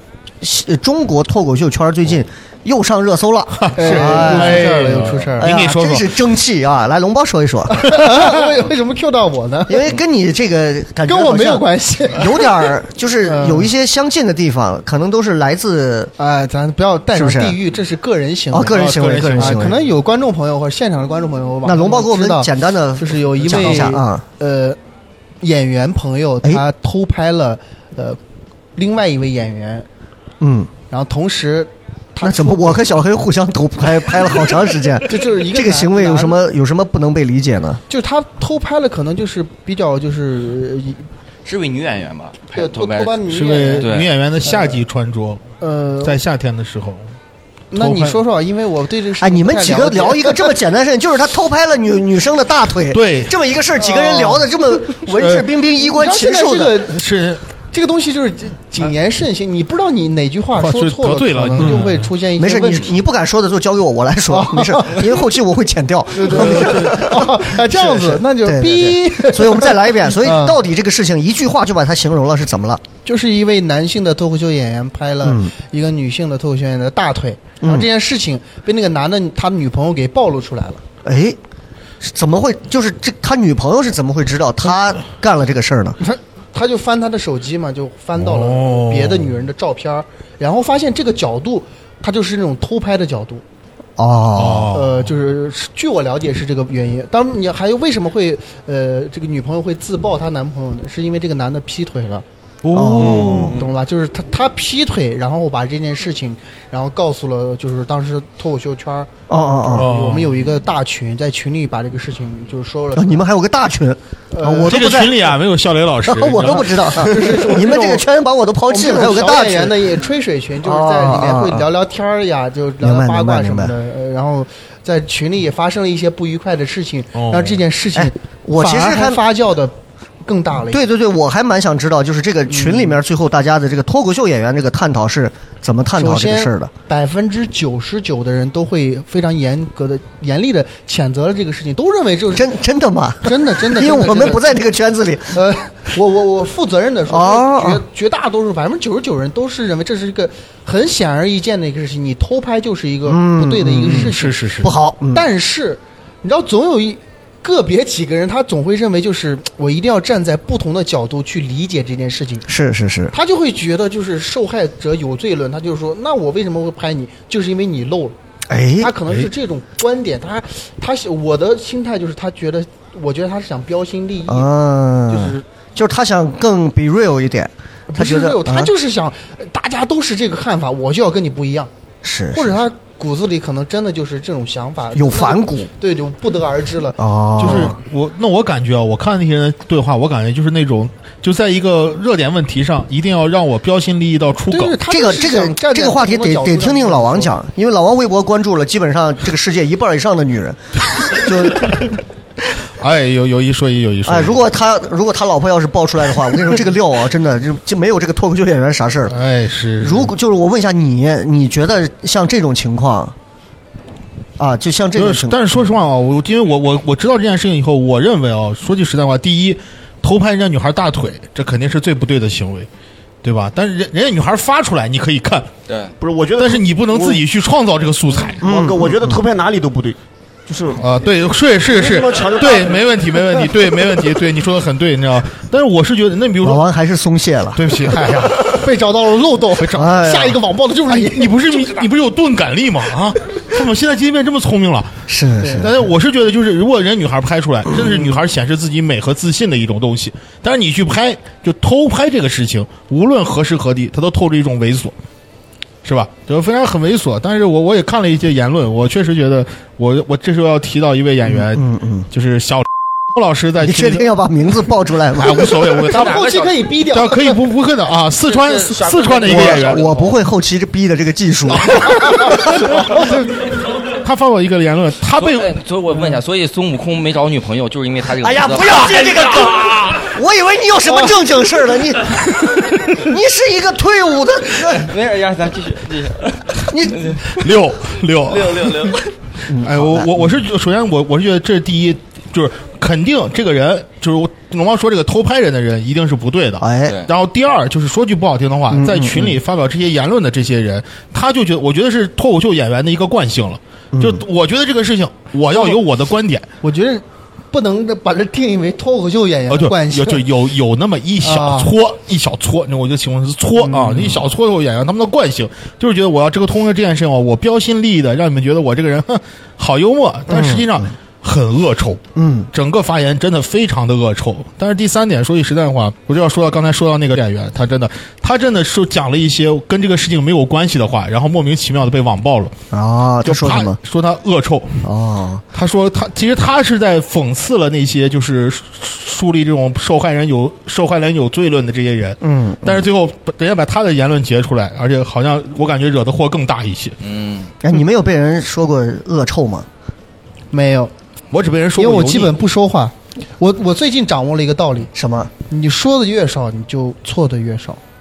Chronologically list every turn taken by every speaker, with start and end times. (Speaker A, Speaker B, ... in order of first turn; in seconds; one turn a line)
Speaker A: 0.4-4.7
Speaker B: 3.6-6.1
Speaker C: 3.8-5.5
Speaker A: 5.4-8.4
Speaker C: 7.7-9.9
Speaker A: 9.7-16.1
Speaker C: 11.1-12.7
Speaker C: 13.2-13.7
Speaker C: 16.2-24.8
Speaker A: 17.1-17.6
Speaker A: 18.5-19.8
Speaker B: 18.6-19.8
Speaker A: 21.6-24.2
Speaker C: 25.4-28.2
Speaker C: 28.8-29.9
Speaker A: 30.4-30.7
Speaker C: 30.9-32.8
Speaker A: 32.2-37.8
Speaker C: 35.1-36.4
Speaker C: 37.9-41.0
Speaker D: 41.5-43.2
Speaker C: 42.5-43.9
Speaker B: 43.3-45.4
Speaker D: 43.8-44.1
Speaker C: 44.4-44.8
Speaker C: 45.6-46.2
Speaker B: 46.0-47.0
Speaker C: 47.7-50.5
Speaker B: 47.8-48.2
Speaker A: 49.2-56.8
Speaker B: 52.9-53.3
Speaker C: 53.8-54.4
Speaker B: 55.2-55.5
Speaker C: 55.8-57.0
Speaker B: 56.9-57.4
Speaker C: 57.7-62.9
Speaker B: 60.6-62.1
Speaker A: 62.4-72.8
Speaker C: 64.3-65.1
Speaker C: 66.2-70.6
Speaker B: 66.4-66.9
Speaker C: 73.0-80.8
Speaker A: 75.2-75.5
Speaker A: 77.6-77.9
Speaker A: 81.0-81.4
Speaker A: 82.0-86.0
Speaker C: 86.0-93.4
Speaker B: 88.2-89.3
Speaker A: 94.0-94.8
Speaker B: 94.4-95.1
Speaker C: 94.7-102.2
Speaker B: 102.6-103.6
Speaker A: 102.7-103.6
Speaker C: 103.2-109.1
Speaker A: 109.3-109.9
Speaker C: 109.7-113.3
Speaker B: 109.7-110.4
Speaker A: 113.0-115.4
Speaker C: 114.3-114.8
Speaker B: 114.7-117.1
Speaker A: 116.1-119.8
Speaker C: 116.4-118.1
Speaker C: 118.7-130.8
Speaker A: 120.6-121.7
Speaker A: 122.8-123.7
Speaker B: 127.2-127.6
Speaker A: 128.0-129.2
Speaker A: 130.7-136.7
Speaker C: 132.5-133.0
Speaker C: 136.0-142.5
Speaker A: 142.3-145.4
Speaker C: 143.2-144.5
Speaker C: 145.3-154.5
Speaker A: 147.1-147.8
Speaker A: 153.1-155.2
Speaker B: 153.9-154.7
Speaker C: 155.1-162.4
Speaker A: 162.5-163.1
Speaker C: 163.1-168.2
Speaker A: 168.5-168.9
Speaker C: 168.8-174.5
Speaker A: 174.3-178.7
Speaker C: 175.1-175.4
Speaker C: 177.9-181.7
Speaker A: 182.0-182.7
Speaker C: 182.3-187.7
Speaker A: 184.9-185.7
Speaker A: 187.0-187.8
Speaker B: 187.4-194.8
Speaker C: 194.5-197.3
Speaker A: 194.9-201.8
Speaker B: 202.8-204.4
Speaker A: 204.1-209.2
Speaker B: 209.1-210.1
Speaker A: 209.8-213.2
Speaker A: 214.4-215.4
Speaker B: 215.0-222.7
Speaker B: 223.2-225.5
Speaker D: 225.7-225.9
Speaker E: 226.0-227.2
Speaker B: 226.4-228.4
Speaker A: 228.4-229.2
Speaker E: 228.4-230.8
Speaker B: 230.8-236.6
Speaker E: 231.7-233.4
Speaker A: 236.4-237.8
Speaker B: 237.6-238.7
Speaker C: 238.4-241.6
Speaker B: 239.6-239.9
Speaker A: 239.8-240.3
Speaker B: 240.9-244.9
Speaker A: 245.1-245.8
Speaker B: 245.5-254.9
Speaker B: 255.8-264.1
Speaker A: 261.3-262.1
Speaker A: 263.6-265.7
Speaker B: 265.2-266.3
Speaker C: 265.9-267.4
Speaker D: 265.9-266.5
Speaker B: 266.9-269.8
Speaker D: 268.3-270.2
Speaker A: 269.2-272.6
Speaker C: 271.8-273.2
Speaker B: 274.0-275.5
Speaker D: 275.2-279.8
Speaker A: 278.2-284.9
Speaker D: 284.6-287.4
Speaker A: 286.7-287.1
Speaker B: 287.3-289.0
Speaker D: 288.3-289.0
Speaker A: 289.5-290.2
Speaker B: 289.5-306.5
Speaker A: 296.6-297.0
Speaker A: 298.7-299.4
Speaker A: 303.9-304.2
Speaker C: 306.6-310.2
Speaker B: 309.5-322.0
Speaker C: 311.2-311.7
Speaker C: 313.6-314.1
Speaker A: 320.3-320.9
Speaker A: 322.2-322.5
Speaker B: 322.5-332.5
Speaker A: 332.7-333.8
Speaker B: 333.2-334.8
Speaker A: 334.8-335.4
Speaker B: 335.5-347.0
Speaker A: 342.2-342.9
Speaker D: 347.0-347.5
Speaker A: 347.6-349.7
Speaker C: 350.5-350.9
Speaker B: 351.3-352.4
Speaker C: 351.8-354.9
Speaker A: 354.9-355.3
Speaker C: 355.5-357.8